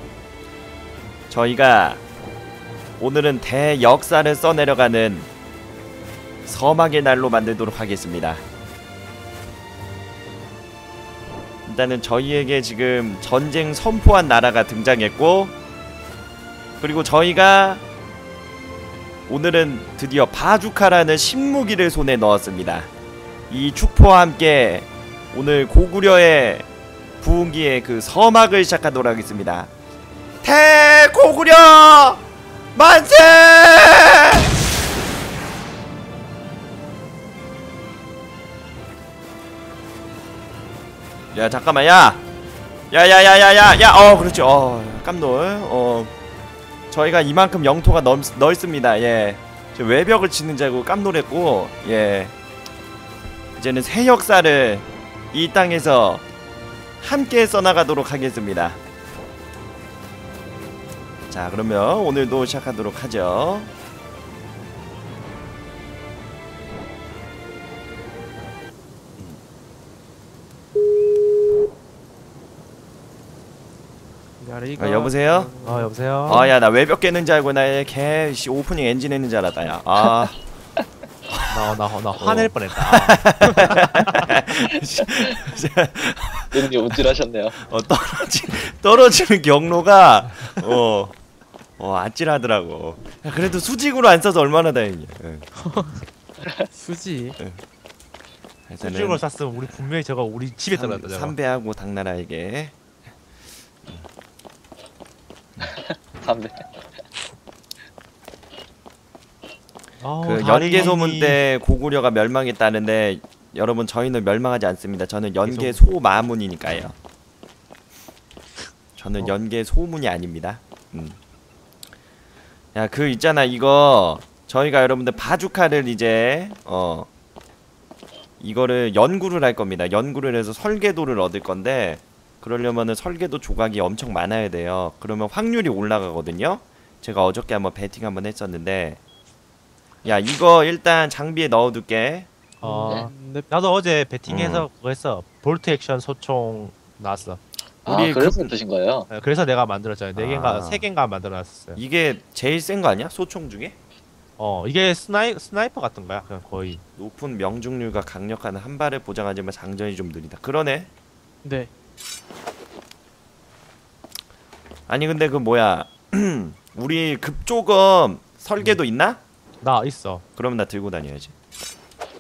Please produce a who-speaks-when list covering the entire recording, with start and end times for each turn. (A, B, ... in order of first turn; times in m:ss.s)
0:01.3-0:02.0 A
0:03.0-0:05.3 A
0:06.4-0:08.4 A
0:11.7-0:15.5 A
0:16.8-0:17.8 A
0:19.3-0:22.9 A
0:23.5-0:26.7 A
0:27.2-0:29.7 A
0:30.4-0:32.2 A
0:32.8-0:34.5 A
0:41.3-0:42.2 A
0:42.9-0:46.1 A
0:46.9-0:52.4 A
0:53.6-0:56.2 A
0:57.0-0:58.8 A
1:01.3-1:03.7 A
1:14.4-1:16.5 B
1:14.8-1:15.5 A
1:15.6-1:16.5 C
1:16.3-1:20.4 A
1:21.5-1:24.3 C
1:22.2-1:31.2 A
1:26.5-1:27.6 D
1:31.8-1:35.5 A
1:35.6-1:36.1 B
1:36.6-1:37.4 B
1:38.7-1:39.9 A
1:38.8-1:41.4 C
1:40.7-1:42.8 A
1:45.6-1:46.7 D
1:50.0-1:51.4 C
1:50.2-1:57.0 A
1:55.4-1:55.8 C
1:59.0-2:01.2 A
2:02.7-2:07.1 A
2:08.4-2:19.0 A
2:20.0-2:22.3 A
2:22.6-2:27.4 C
2:22.6-2:23.5 B
2:24.3-2:24.7 A
2:27.8-2:29.1 D
2:27.9-2:28.6 A
2:29.1-2:31.8 C
2:30.2-2:30.9 A
2:31.8-2:33.8 A
2:34.4-2:36.8 C
2:37.0-2:40.9 A
2:41.4-2:41.7 B
2:44.9-2:49.2 A
2:49.6-2:50.2 C
2:50.4-2:51.3 A